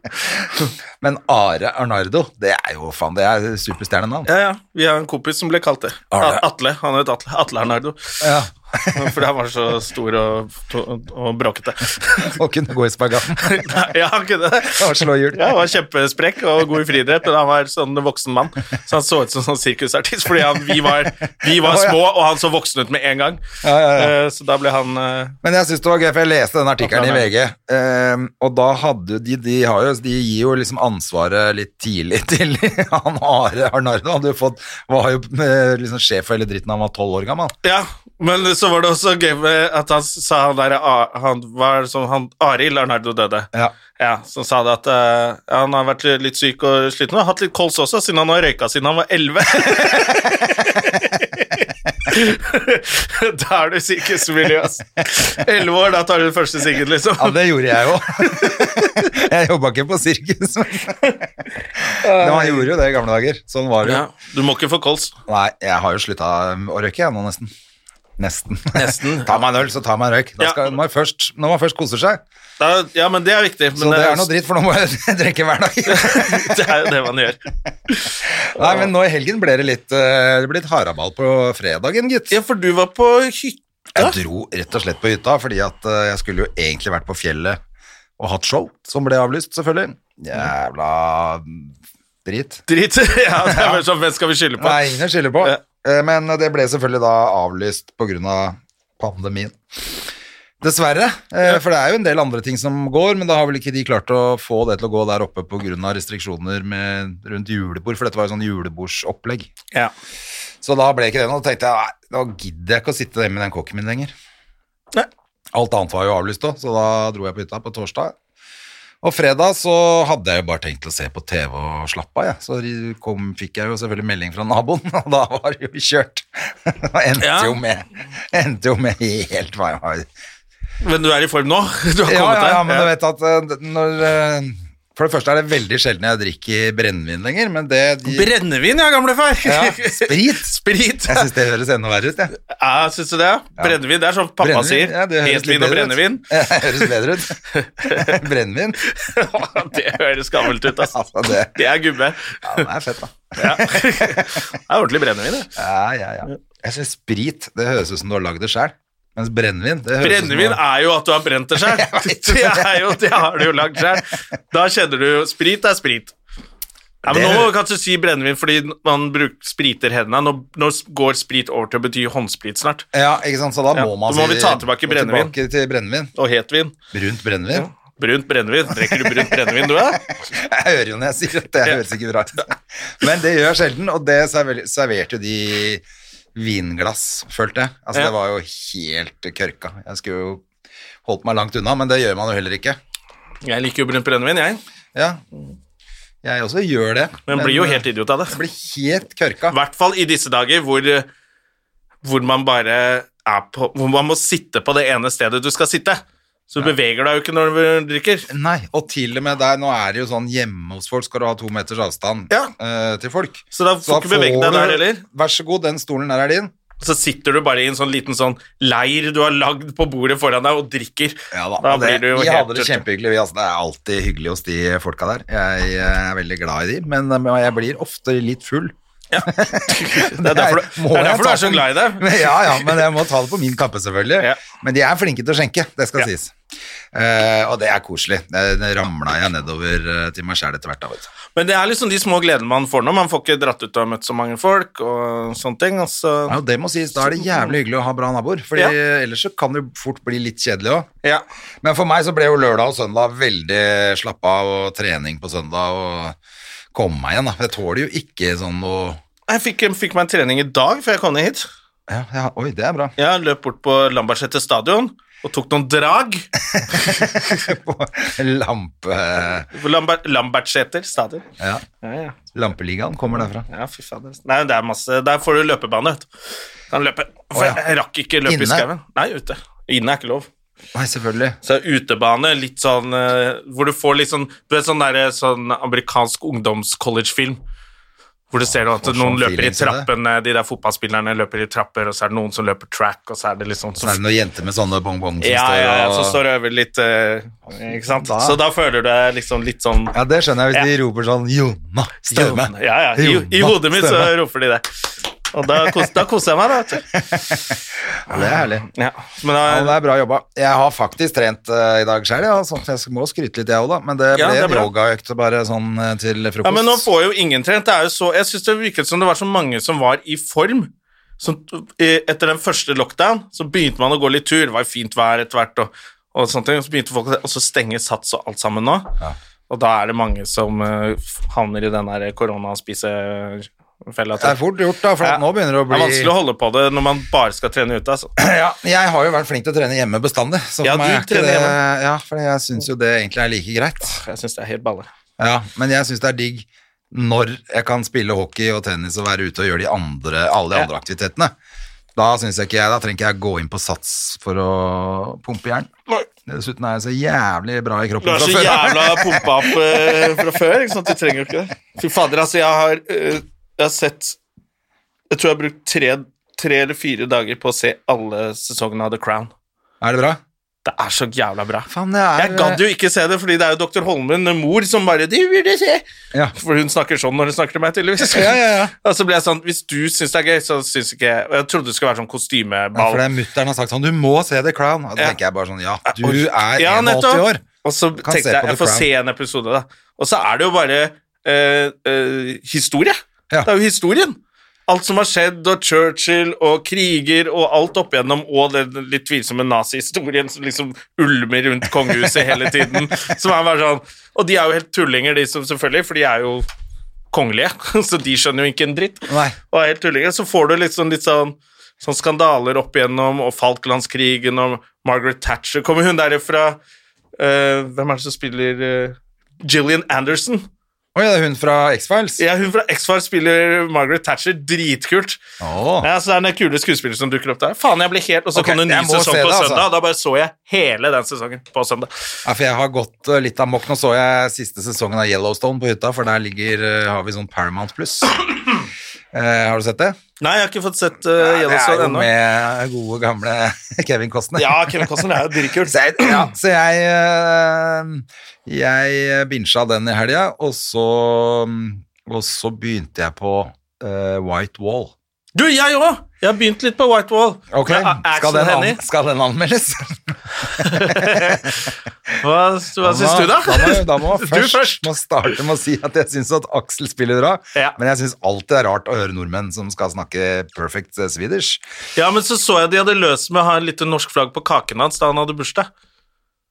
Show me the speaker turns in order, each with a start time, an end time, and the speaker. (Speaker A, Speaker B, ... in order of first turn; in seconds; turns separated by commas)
Speaker A: 1.0-4.3, Speaker B: 4.2-8.3, Speaker A: 6.1-6.4, Speaker A: 8.2-9.2, Speaker B: 8.9-12.3, Speaker A: 12.2-13.7, Speaker B: 13.4-23.4, Speaker A: 14.7-15.6, Speaker A: 20.5-22.0, Speaker A: 23.6-24.1, Speaker B: 23.9-25.4, Speaker A: 25.4-37.5, Speaker B: 26.8-27.3, Speaker B: 37.6-57.4, Speaker A: 49.5-51.1, Speaker A: 57.2-61.3, Speaker B: 58.1-59.1, Speaker A: 61.8-64.0, Speaker B: 62.0-62.7, Speaker B: 63.8-65.1, Speaker A: 65.3-67.5, Speaker A: 68.2-72.2, Speaker B: 68.7-69.4, Speaker B: 70.4-70.7, Speaker B: 72.6-74.3, Speaker A: 73.7-76.7, Speaker B: 75.9-78.9, Speaker A: 78.2-82.3, Speaker B: 82.3-84.2, Speaker A: 83.9-87.6, Speaker A: 88.2-91.7, Speaker A: 92.2-92.6, Speaker B: 92.7-94.8, Speaker A: 93.4-93.8, Speaker A: 94.6-99.9, Speaker A: 100.6-109.5, Speaker A: 110.6-114.1, Speaker A: 115.5-118.1, Speaker A: 119.0-130.1, Speaker B: 127.2-127.6, Speaker B: 130.8-132.9, Speaker A: 132.1-138.3, Speaker B: 138.1-141.3, Speaker A: 139.4-140.5, Speaker A: 141.1-142.3, Speaker B: 142.4-146.9, Speaker A: 144.4-148.8, Speaker B: 147.5-148.2, Speaker B: 148.8-151.0, Speaker A: 150.7-151.6, Speaker B: 151.5-152.7, Speaker A: 152.4-154.4, Speaker B: 153.3-155.5, Speaker A: 155.6-160.6, Speaker B: 160.0-166.1, Speaker A: 161.5-163.0, Speaker B: 167.0-172.9, Speaker A: 167.1-167.5, Speaker A: 172.9-176.1, Speaker B: 173.7-175.3, Speaker B: 176.2-176.8, Speaker A: 176.9-177.7, Speaker B: 177.5-180.0, Speaker A: 178.7-185.8, Speaker A: 186.3-190.4, Speaker A: 191.0-192.8, Speaker B: 193.4-194.6, Speaker A: 194.9-195.2, Speaker A: 196.2-199.6, Speaker B: 197.3-198.4, Speaker B: 199.5-201.1, Speaker B: 202.0-208.3, Speaker A: 208.3-216.5, Speaker B: 213.5-215.0, Speaker B: 216.8-222.8, Speaker A: 221.3-236.3, Speaker B: 229.1-232.9, Speaker A: 236.9-241.1, Speaker B: 241.3-246.4, Speaker A: 246.3-250.9, Speaker B: 247.1-247.5, Speaker A: 251.6-256.2, Speaker A: 256.7-259.0, Speaker B: 259.3-261.5, Speaker A: 261.9-262.9, Speaker B: 263.0-267.5, Speaker A: 266.5-269.5, Speaker B: 269.5-271.2, Speaker A: 271.4-271.6, Speaker B: 271.8-272.2, Speaker A: 272.3-273.4, Speaker B: 273.5-276.1, Speaker B: 276.7-280.3, Speaker A: 277.3-277.6, Speaker A: 278.2-278.7, Speaker A: 280.7-281.4, Speaker B: 281.4-287.4, Speaker B: 288.3-294.0, Speaker A: 288.4-289.9, Speaker A: 293.8-296.2, Speaker B: 295.2-299.9, Speaker A: 297.9-298.4, Speaker A: 299.9-304.1, Speaker B: 302.1-306.9, Speaker A: 306.9-307.5, Speaker A: 308.1-308.7, Speaker B: 308.7-309.8, Speaker A: 309.4-316.9, Speaker B: 314.1-314.7, Speaker B: 316.4-328.9, Speaker B: 329.5-334.4, Speaker A: 334.2-336.1, Speaker B: 335.0-338.1, Speaker A: 338.2-344.0, Speaker B: 340.6-341.6, Speaker B: 343.8-344.9, Speaker A: 345.2-351.3, Speaker A: 351.9-355.7, Speaker A: 356.3-360.3, Speaker B: 358.0-364.2, Speaker B: 365.1-369.3, Speaker A: 369.8-370.2, Speaker B: 370.6-375.8, Speaker A: 371.7-372.6, Speaker B: 376.4-383.0, Speaker A: 378.0-378.7, Speaker A: 382.7-387.4, Speaker B: 385.9-406.4, Speaker A: 388.0-388.9, Speaker A: 402.0-402.3, Speaker B: 407.1-416.6, Speaker A: 409.1-409.4, Speaker B: 417.2-420.5, Speaker A: 420.9-422.2, Speaker B: 422.2-425.2, Speaker A: 425.4-425.9, Speaker B: 425.8-431.9, Speaker A: 428.3-429.6, Speaker A: 432.2-438.5, Speaker A: 439.1-440.0, Speaker B: 440.2-442.1, Speaker A: 441.2-445.0, Speaker B: 444.4-446.3, Speaker A: 445.6-454.9, Speaker B: 455.3-458.8, Speaker A: 457.5-461.6, Speaker B: 460.5-464.9, Speaker A: 462.8-471.6, Speaker B: 471.9-475.7